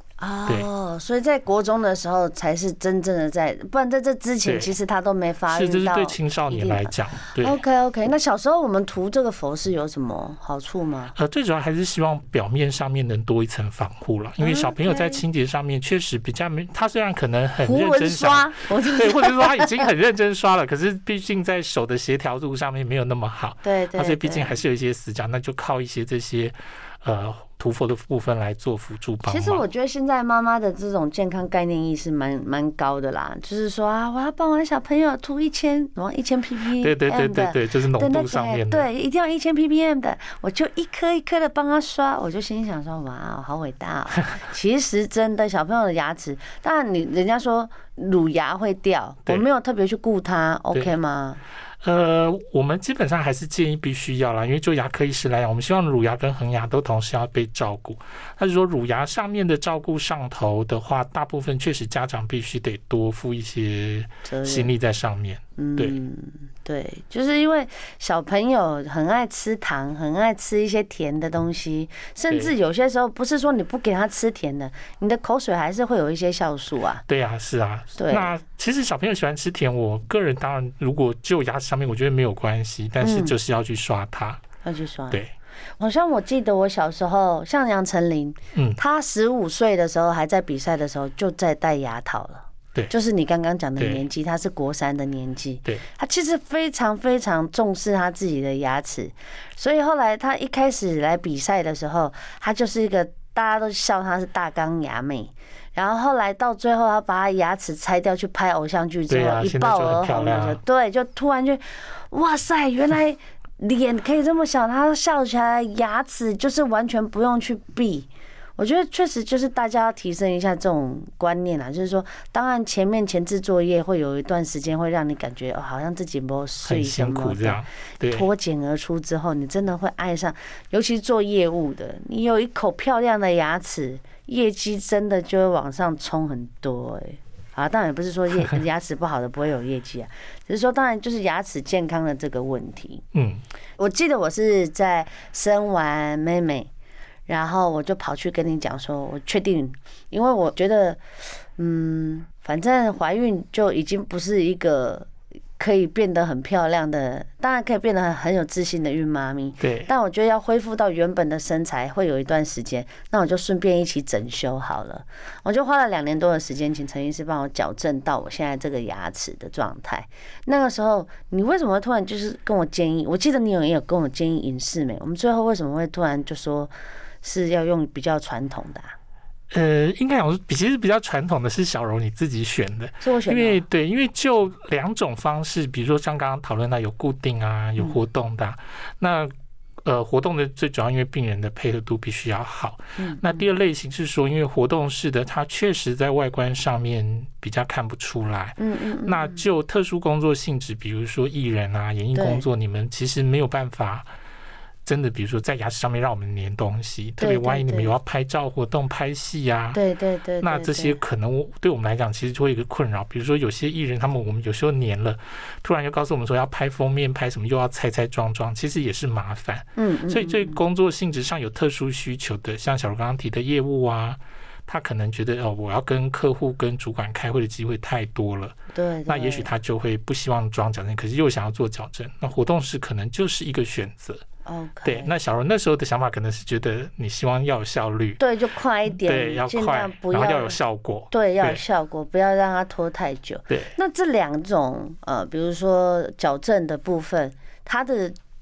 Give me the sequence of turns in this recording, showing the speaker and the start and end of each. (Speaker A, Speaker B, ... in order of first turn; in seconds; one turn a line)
Speaker A: 0.2-11.1
Speaker B: 4.4-4.7
Speaker B: 5.5-7.6
Speaker B: 11.1-29.6
Speaker A: 14.4-15.2
Speaker A: 17.6-19.9
Speaker A: 23.6-24.6
Speaker A: 29.2-51.4
Speaker B: 36.8-38.9
Speaker B: 51.8-66.0
Speaker A: 64.2-64.7
Speaker A: 65.6-77.0
Speaker B: 77.1-84.4
Speaker A: 78.0-78.3
Speaker A: 83.0-83.3
Speaker A: 84.6-85.2
Speaker A: 85.8-143.0
Speaker B: 93.8-94.0
Speaker B: 109.1-110.6
Speaker B: 126.6-128.3
Speaker B: 143.1-143.4
Speaker A: 143.8-146.7
Speaker A: 147.3-151.0
Speaker A: 151.6-176.7
Speaker B: 159.6-159.9
Speaker A: 177.2-178.9
Speaker B: 179.5-189.3
Speaker A: 183.0-183.6
Speaker B: 189.8-204.1
Speaker A: 193.0-193.4
Speaker A: 198.6-199.4
Speaker A: 202.1-202.4
Speaker B: 204.8-209.8
Speaker A: 207.2-207.9
Speaker A: 209.7-211.0
Speaker B: 210.4-234.2
Speaker A: 219.8-220.6
Speaker A: 228.7-229.5
Speaker A: 234.4-235.1
Speaker B: 234.8-238.2
Speaker A: 238.2-240.6
Speaker B: 238.9-241.6
Speaker A: 241.1-248.2